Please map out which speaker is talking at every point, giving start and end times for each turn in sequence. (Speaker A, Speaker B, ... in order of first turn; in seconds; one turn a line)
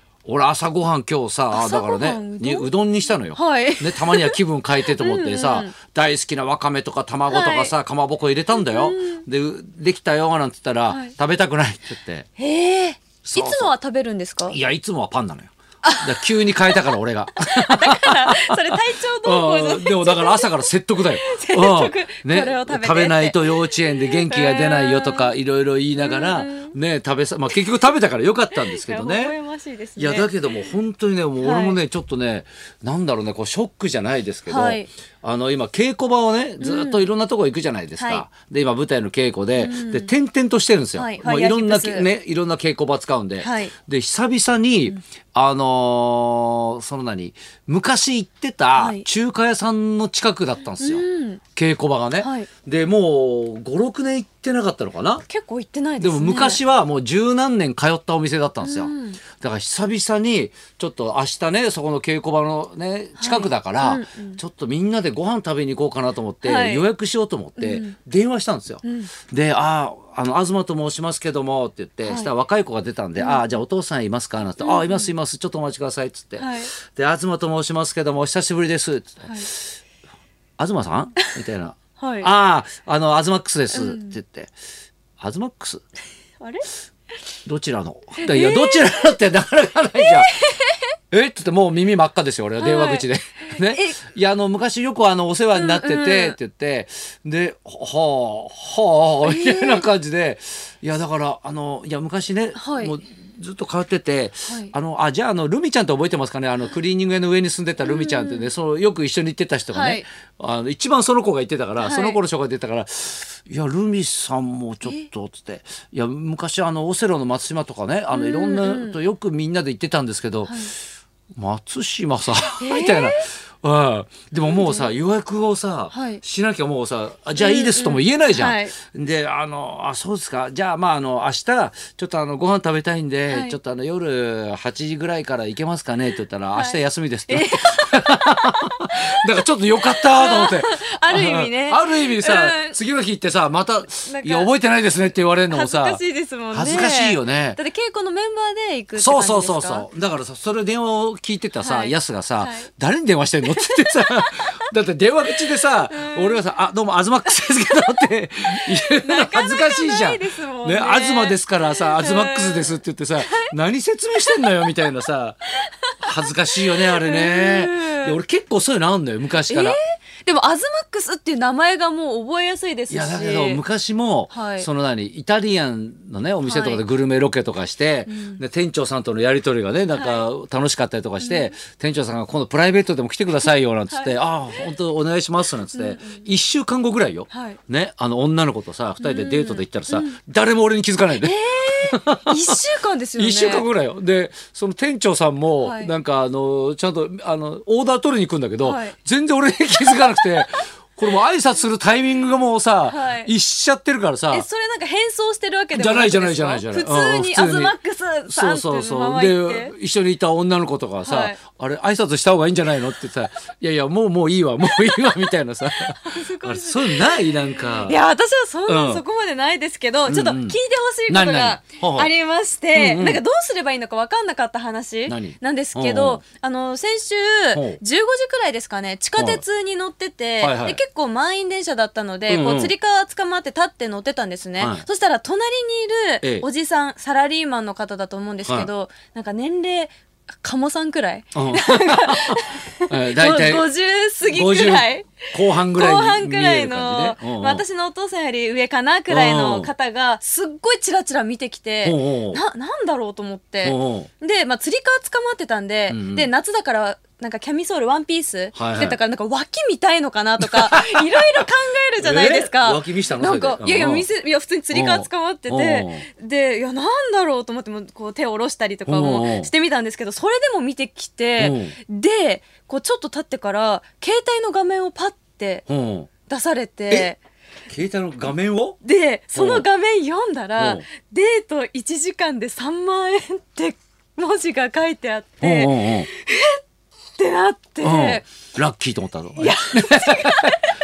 Speaker A: 0.2-12.3
Speaker B: 1.5-2.7
Speaker B: 3.3-4.4
Speaker B: 4.9-5.7
Speaker B: 7.3-7.7
Speaker B: 8.5-9.2
Speaker B: 12.4-14.6
Speaker A: 13.2-13.7
Speaker A: 14.5-29.3
Speaker B: 15.8-20.6
Speaker B: 21.1-25.4
Speaker B: 26.0-26.8
Speaker B: 28.5-30.7
Speaker A: 30.0-51.0
Speaker B: 31.4-31.8
Speaker B: 34.5-34.9
Speaker B: 36.6-37.1
Speaker B: 38.0-38.3
Speaker B: 39.5-40.1
Speaker B: 41.0-42.1
Speaker B: 43.4-43.7
Speaker B: 48.8-49.1
Speaker B: 50.8-51.4
Speaker A: 51.5-55.2
Speaker B: 52.2-52.5
Speaker B: 55.3-56.6
Speaker A: 56.0-79.6
Speaker B: 58.6-59.2
Speaker B: 63.2-64.4
Speaker B: 66.4-66.9
Speaker B: 67.6-67.9
Speaker B: 68.8-69.1
Speaker B: 72.0-72.3
Speaker B: 73.2-73.5
Speaker B: 74.6-75.1
Speaker B: 76.4-76.7
Speaker B: 79.2-79.5
Speaker A: 80.6-84.5
Speaker B: 82.0-82.3
Speaker B: 83.7-84.2
Speaker A: 85.2-85.8
Speaker B: 86.4-86.7
Speaker A: 87.5-90.3
Speaker B: 88.2-89.0
Speaker B: 90.0-90.9
Speaker A: 91.1-120.6
Speaker B: 92.6-94.0
Speaker B: 95.5-96.4
Speaker B: 99.2-99.9
Speaker B: 102.5-103.0
Speaker B: 104.5-104.7
Speaker B: 107.8-108.5
Speaker B: 109.7-110.0
Speaker B: 111.8-112.2
Speaker B: 118.1-119.0
Speaker B: 120.5-120.7
Speaker A: 121.4-146.0
Speaker B: 122.6-123.3
Speaker B: 124.4-124.9
Speaker B: 125.9-126.2
Speaker B: 127.4-128.8
Speaker B: 133.3-133.6
Speaker B: 136.5-139.0
Speaker B: 139.8-142.8
Speaker B: 144.1-144.5
Speaker B: 145.5-149.9
Speaker A: 146.5-147.6
Speaker A: 149.0-165.4
Speaker B: 151.6-152.7
Speaker B: 153.6-154.5
Speaker B: 155.3-156.4
Speaker B: 157.7-163.5
Speaker B: 164.3-164.7
Speaker B: 165.6-165.9
Speaker A: 166.0-169.8
Speaker B: 166.7-168.2
Speaker B: 169.5-173.6
Speaker A: 172.9-192.5
Speaker B: 174.3-174.7
Speaker B: 176.4-176.8
Speaker B: 178.1-178.4
Speaker B: 179.9-180.2
Speaker B: 181.2-181.5
Speaker B: 183.9-184.2
Speaker B: 185.7-186.3
Speaker B: 187.3-187.6
Speaker B: 189.0-190.2
Speaker B: 191.2-193.7
Speaker A: 193.2-204.5
Speaker B: 195.6-195.9
Speaker B: 198.6-199.0
Speaker B: 202.9-203.3
Speaker B: 204.3-209.7
Speaker A: 205.7-207.7
Speaker A: 208.3-218.0
Speaker B: 211.0-211.4
Speaker B: 214.7-215.2
Speaker B: 215.8-275.7
Speaker A: 218.7-219.0
Speaker A: 220.1-220.6
Speaker A: 221.1-222.1
Speaker A: 222.7-223.2
Speaker A: 225.1-226.2
Speaker A: 227.5-227.8
Speaker A: 229.2-229.4
Speaker A: 230.4-230.8
Speaker A: 232.3-232.7
Speaker A: 234.6-234.8
Speaker A: 241.3-243.7
Speaker A: 244.2-247.6
Speaker A: 249.1-249.7
Speaker A: 251.8-252.4
Speaker A: 253.6-254.1
Speaker A: 255.9-256.3
Speaker A: 258.5-259.0
Speaker A: 260.4-261.4
Speaker A: 262.0-264.1
Speaker A: 264.7-266.1
Speaker A: 268.9-269.5
Speaker A: 271.4-271.8
Speaker A: 275.7-276.1
Speaker B: 276.3-277.2
Speaker A: 277.7-278.8
Speaker B: 278.8-286.6
Speaker A: 279.4-279.7
Speaker A: 280.6-280.8
Speaker A: 285.4-286.1
Speaker B: 287.2-288.3
Speaker A: 287.8-290.5
Speaker B: 289.4-290.7